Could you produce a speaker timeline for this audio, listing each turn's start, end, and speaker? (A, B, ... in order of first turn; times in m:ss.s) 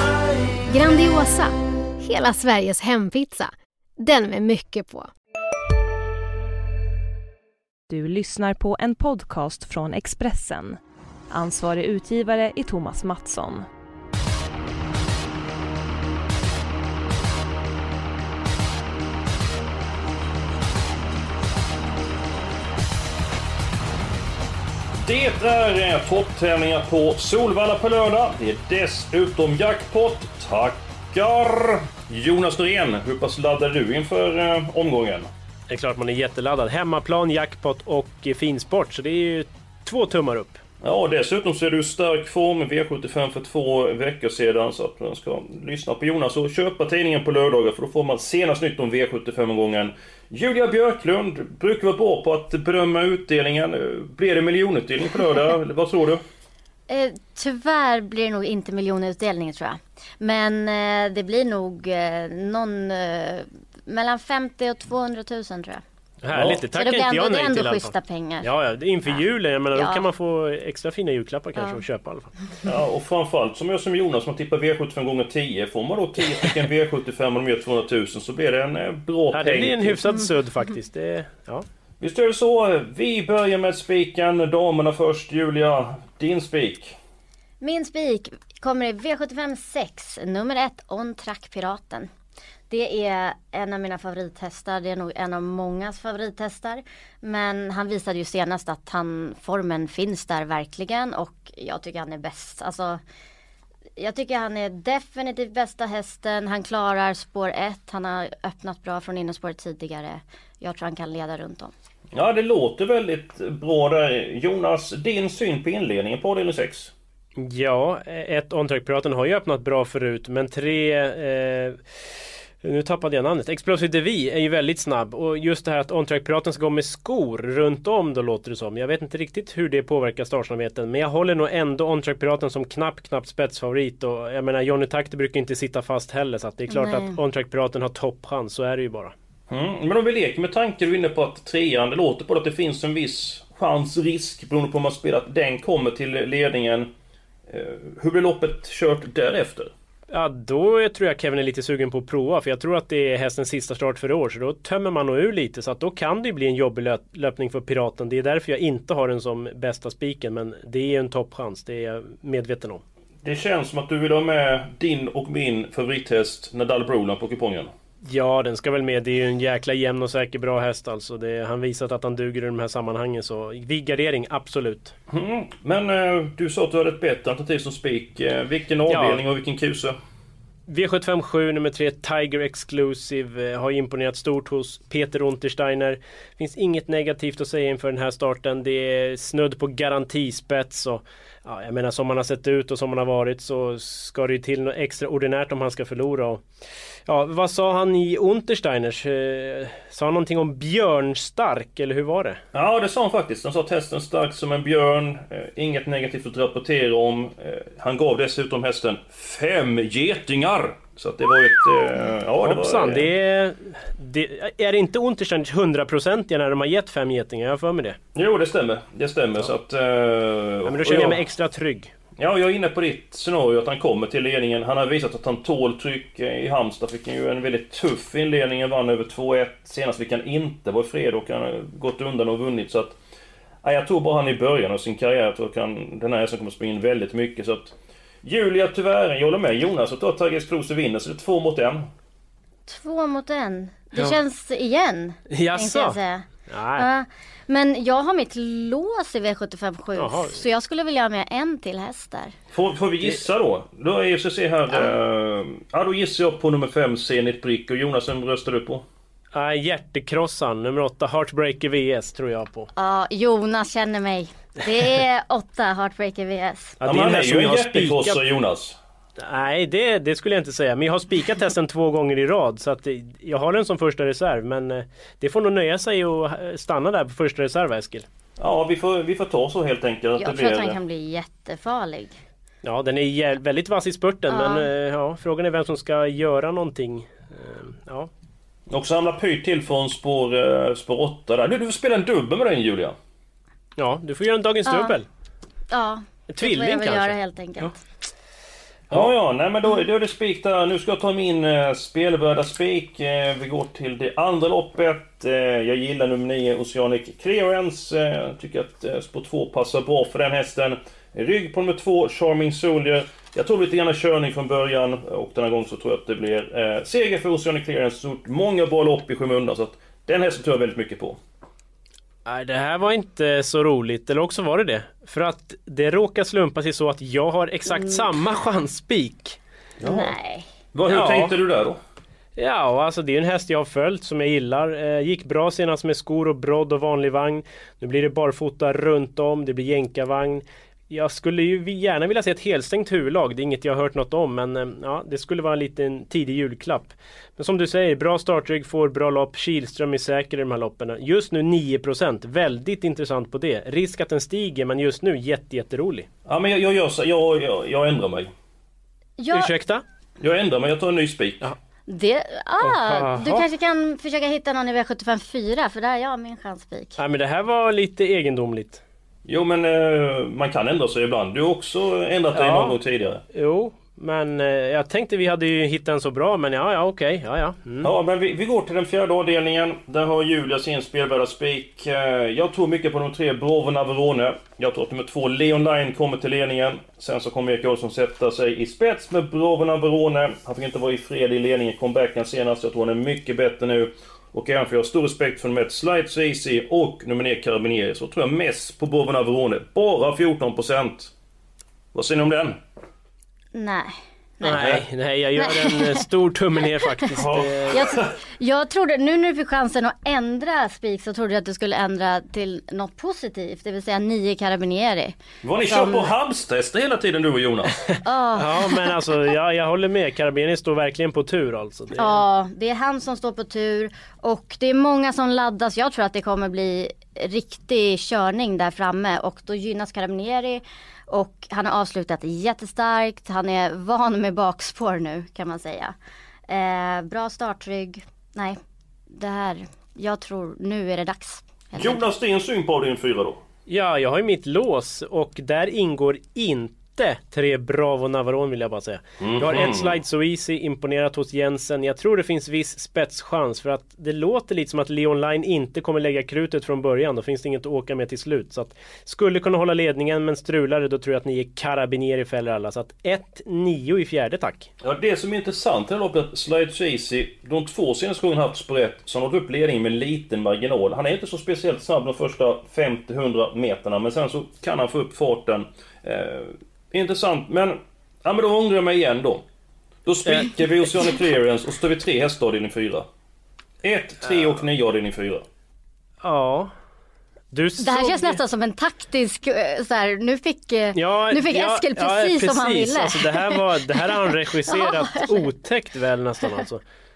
0:00.7-0:05.1 A
0:07.9-0:13.7 B
0:25.0-0:35.3 C
0:35.7-0:40.6 D
0:40.8-0:56.2 C
0:56.9-1:05.8 E
1:06.2-1:12.3 D
1:06.3-1:06.7 C
1:06.7-1:08.5 E
1:09.8-1:10.0 E
1:12.6-1:20.0 C
1:19.3-1:21.6 D
1:22.0-1:27.0 C
1:27.6-1:32.1 E
1:32.7-1:43.0 E
1:44.0-1:51.7 E
1:52.1-1:56.9 C
1:57.4-2:01.8 D
2:02.6-2:19.1 D
2:16.7-2:17.2 E
2:19.5-2:26.9 C
2:27.5-2:29.7 C
2:30.1-2:42.8 D
2:43.2-2:47.7 C
2:48.0-2:54.9 D
2:55.1-3:00.0 C
2:58.9-2:59.2 D
3:00.7-3:16.4 D
3:17.1-3:22.4 D
3:22.5-3:33.1 C
3:32.4-3:38.0 D
3:38.2-3:41.2 C
3:40.6-3:41.9 D
3:42.2-3:53.0 C
3:53.6-4:01.8 C
4:02.7-4:12.4 E
4:05.3-4:06.9 D
4:10.0-4:10.4 D
4:12.5-4:18.8 C
4:19.3-4:22.7 D
4:22.8-4:26.8 E
4:26.8-4:28.2 D
4:26.8-4:28.8 C
4:29.2-4:38.1 D
4:38.4-4:40.8 C
4:40.2-4:42.2 E
4:42.6-4:48.1 D
4:44.3-4:44.7 E
4:48.7-4:53.0 C
4:53.8-4:55.1 D
4:54.7-4:55.0 E
4:55.7-4:57.7 E
4:56.3-4:57.7 D
4:58.9-5:21.2 C
5:22.3-5:29.4 D
5:27.7-5:28.0 E
5:29.8-5:30.1 C
5:29.8-5:30.5 E
5:30.7-5:31.8 C
5:30.9-5:31.3 D
5:32.4-5:56.1 D
5:56.3-5:58.3 C
5:59.2-5:59.5 E
5:59.3-5:59.8 D
6:00.2-6:01.4 C
6:01.9-6:07.0 E
6:02.6-6:03.4 D
6:07.0-6:08.8 D
6:09.3-6:13.2 C
6:12.3-6:12.8 D
6:13.3-6:17.9 D
6:17.8-6:41.1 C
6:41.9-6:42.6 C
6:43.5-6:44.8 E
6:44.4-6:47.9 D
6:44.5-6:44.8 C
6:45.4-6:46.0 E
6:47.2-6:48.2 C
6:47.7-6:56.1 E
6:55.4-6:57.8 C
6:57.9-7:02.2 D
6:58.0-6:58.8 E
7:02.0-7:16.0 E
7:16.5-7:18.6 E
7:19.1-7:22.0 E
7:21.8-7:23.4 C
7:23.7-7:44.7 D
7:29.2-7:30.0 C
7:44.8-7:59.4 C
8:00.0-8:03.1 C
8:00.3-8:00.6 D
8:03.8-8:05.4 C
8:06.2-8:06.7 D
8:07.5-8:08.4 D
8:07.8-8:15.5 E
8:10.9-8:16.8 D